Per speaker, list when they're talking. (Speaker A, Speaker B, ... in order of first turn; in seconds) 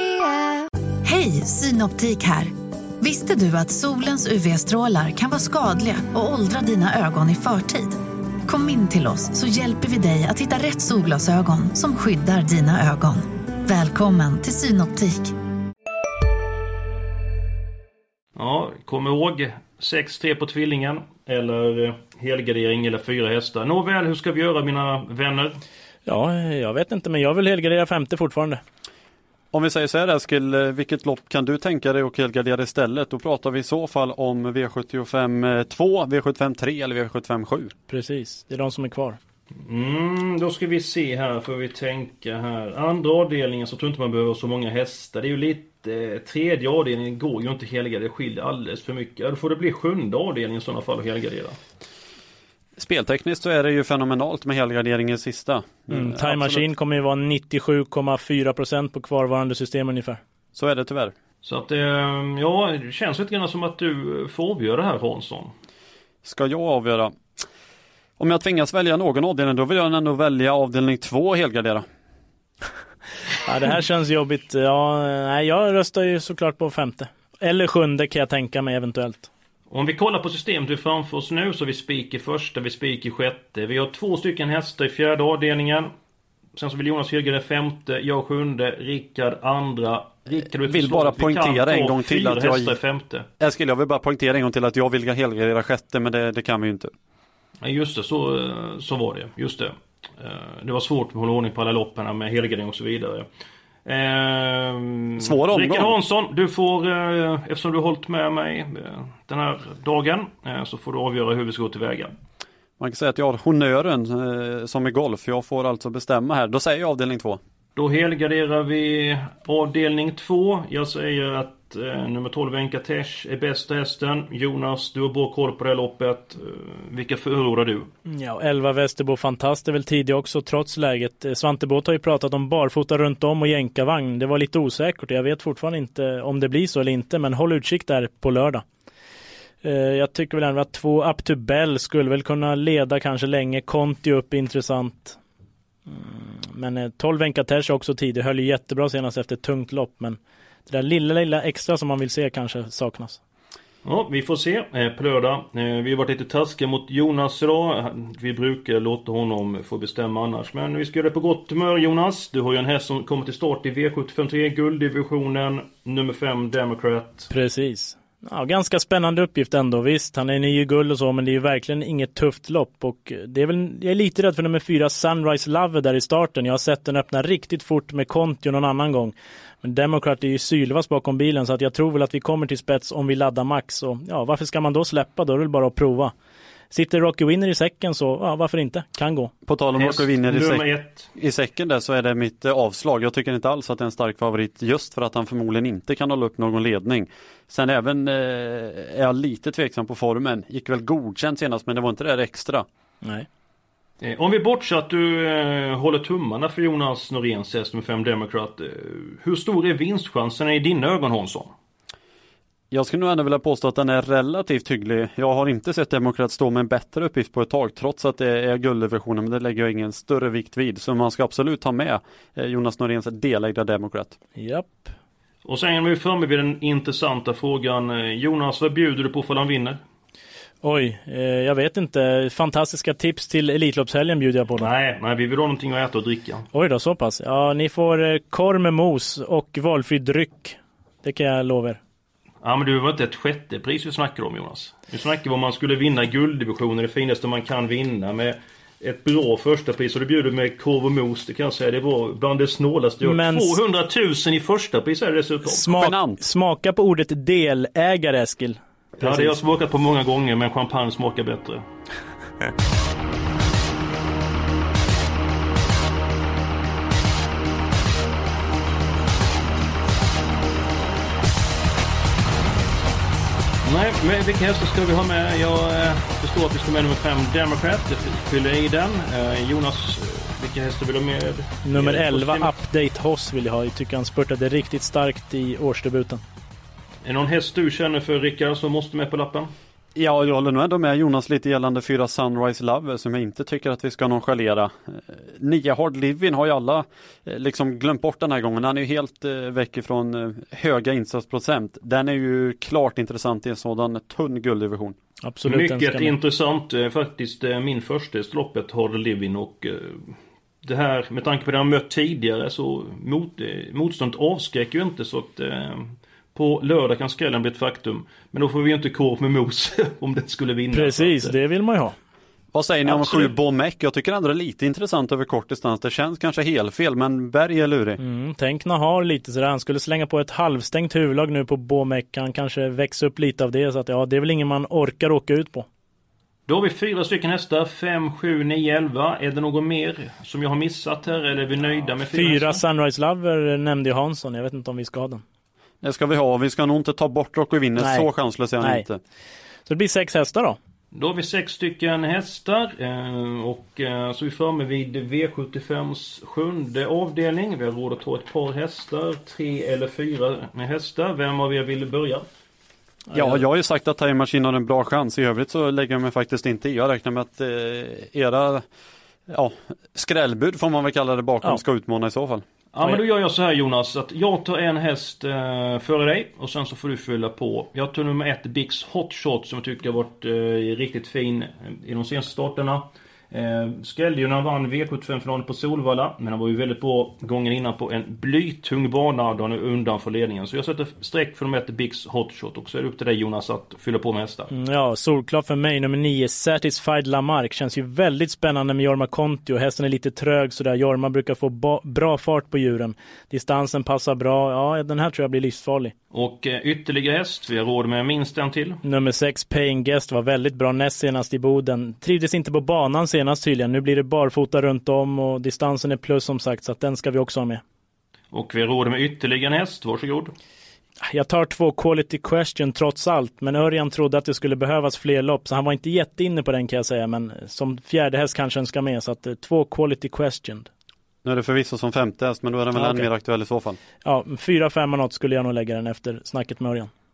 Speaker A: 1.1-2.4, 3.1-7.5, 8.5-13.2, 13.7-14.9
Speaker B: 18.4-25.6, 39.6-51.6, 61.4-65.5, 79.7-85.9, 86.6-93.3, 97.6-103.3, 103.9-112.1, 117.8-127.9, 153.8-167.3, 189.8-191.1, 204.0-211.5, 225.4-229.8, 234.6-236.5, 242.4-255.7, 259.0-261.6, 273.6-282.5, 287.0-289.5, 305.4-310.1, 310.6-321.3, 322.9-323.3, 336.5-342.6, 350.9-362.2, 372.7-394.5, 406.1-408.8, 418.3-420.3
Speaker C: 26.1-28.6, 37.9-39.2, 55.9-60.2, 73.5-79.3, 128.1-138.6, 139.6-145.2, 145.9-153.2, 167.3-186.1, 186.7-189.3, 224.4-224.9, 230.6-234.7, 236.5-241.8, 253.0-253.6, 255.4-259.4, 281.6-286.2, 305.2-306.1, 320.7-321.9, 328.0-335.7, 342.1-345.2, 347.8-348.9, 349.7-350.6, 363.1-363.4, 394.5-405.9, 408.8-417.6, 421.0-430.7, 432.7-433.1, 434.0-436.9
Speaker D: 29.5-37.7, 52.8-56.7, 60.5-61.1, 66.2-67.1, 68.2-71.8, 90.7-92.8, 93.4-96.9, 105.2-106.0, 112.8-117.4, 189.5-202.7, 212.7-224.2, 255.7-256.2, 290.0-305.0, 322.5-328.0, 345.8-349.0, 363.1-368.6, 369.3-372.4, 431.2-433.8